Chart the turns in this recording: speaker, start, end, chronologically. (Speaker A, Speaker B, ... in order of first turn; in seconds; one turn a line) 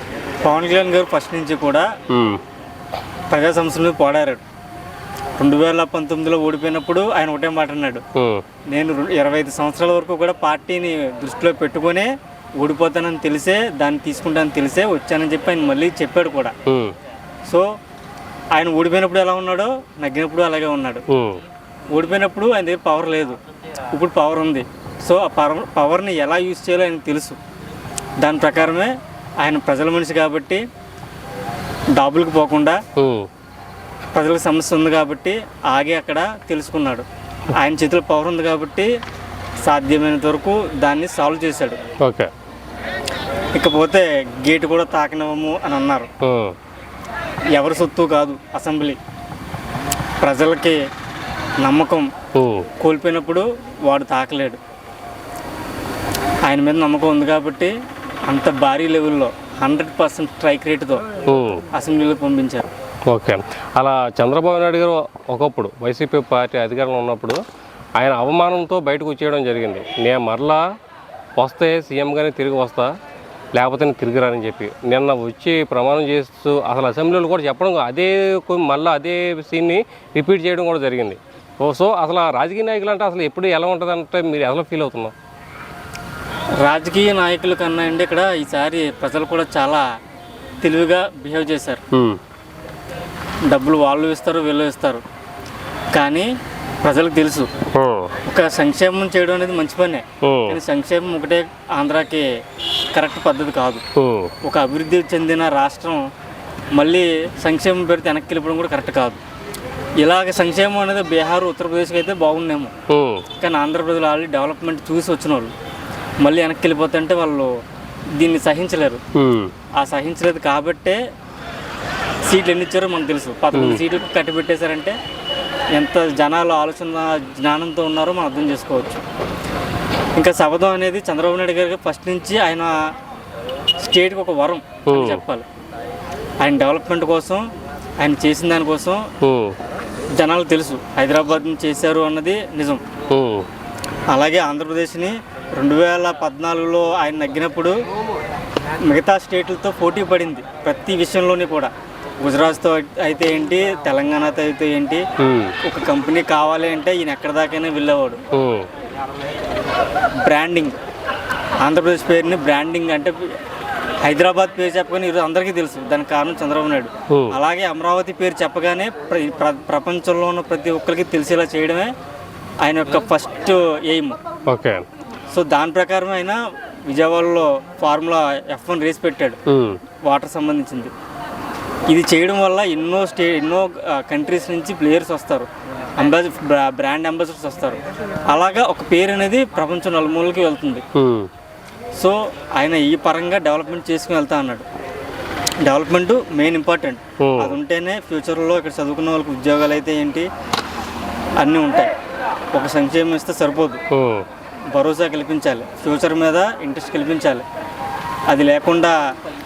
Speaker A: 0.4-1.9
Speaker B: 2.1-2.4
Speaker A: 3.3-4.4
Speaker A: 5.4-8.0
Speaker B: 8.2-8.4
Speaker A: 8.7-16.5
Speaker B: 16.7-16.9
Speaker A: 18.6-21.0
Speaker B: 21.1-21.4
Speaker A: 21.9-23.4
Speaker A: 23.9-27.4
Speaker A: 28.2-30.6
Speaker A: 31.9-32.8
Speaker B: 33.0-33.3
Speaker A: 34.1-38.9
Speaker A: 39.6-41.8
Speaker B: 42.0-42.3
Speaker A: 43.5-46.1
Speaker B: 46.2-46.5
Speaker A: 47.5-49.0
Speaker A: 50.2-50.8
Speaker A: 51.6-52.1
Speaker B: 52.3-52.7
Speaker A: 52.8-54.6
Speaker A: 56.4-57.7
Speaker A: 58.3-61.1
Speaker B: 61.3-61.6
Speaker A: 61.7-62.7
Speaker B: 63.1-67.4
Speaker B: 68.0-70.6
Speaker B: 71.4-72.9
Speaker B: 73.5-85.1
Speaker A: 86.6-89.9
Speaker A: 90.6-91.8
Speaker B: 91.9-92.2
Speaker A: 93.5-95.0
Speaker A: 95.9-96.3
Speaker A: 96.8-97.5
Speaker B: 97.7-98.1
Speaker A: 98.2-102.3
Speaker B: 100.2-100.6
Speaker A: 102.9-103.8
Speaker B: 104.0-104.3
Speaker A: 104.4-106.0
Speaker A: 106.7-109.2
Speaker A: 110.0-112.7
Speaker B: 112.9-113.2
Speaker A: 113.4-115.5
Speaker A: 116.2-117.5
Speaker A: 118.2-119.0
Speaker B: 119.1-119.5
Speaker A: 119.8-121.0
Speaker A: 122.3-125.0
Speaker B: 123.5-123.8
Speaker A: 125.7-129.0
Speaker A: 130.2-132.7
Speaker A: 133.8-135.4
Speaker B: 134.8-135.2
Speaker A: 136.4-137.4
Speaker A: 138.0-139.1
Speaker B: 139.2-139.6
Speaker A: 140.2-142.8
Speaker B: 143.1-143.5
Speaker A: 144.1-147.8
Speaker A: 148.8-155.0
Speaker B: 155.2-155.6
Speaker A: 155.6-158.2
Speaker B: 158.3-158.7
Speaker A: 160.2-160.8
Speaker A: 161.6-163.3
Speaker A: 164.0-171.9
Speaker B: 167.1-167.3
Speaker A: 172.6-174.2
Speaker B: 174.5-174.9
Speaker A: 175.3-179.4
Speaker B: 179.5-179.8
Speaker A: 180.0-180.9
Speaker A: 181.9-190.8
Speaker B: 190.9-191.3
Speaker A: 192.0-194.7
Speaker A: 195.6-200.3
Speaker B: 197.2-197.6
Speaker A: 201.4-201.9
Speaker A: 202.5-203.8
Speaker B: 203.9-204.2
Speaker A: 204.7-207.4
Speaker A: 208.3-208.9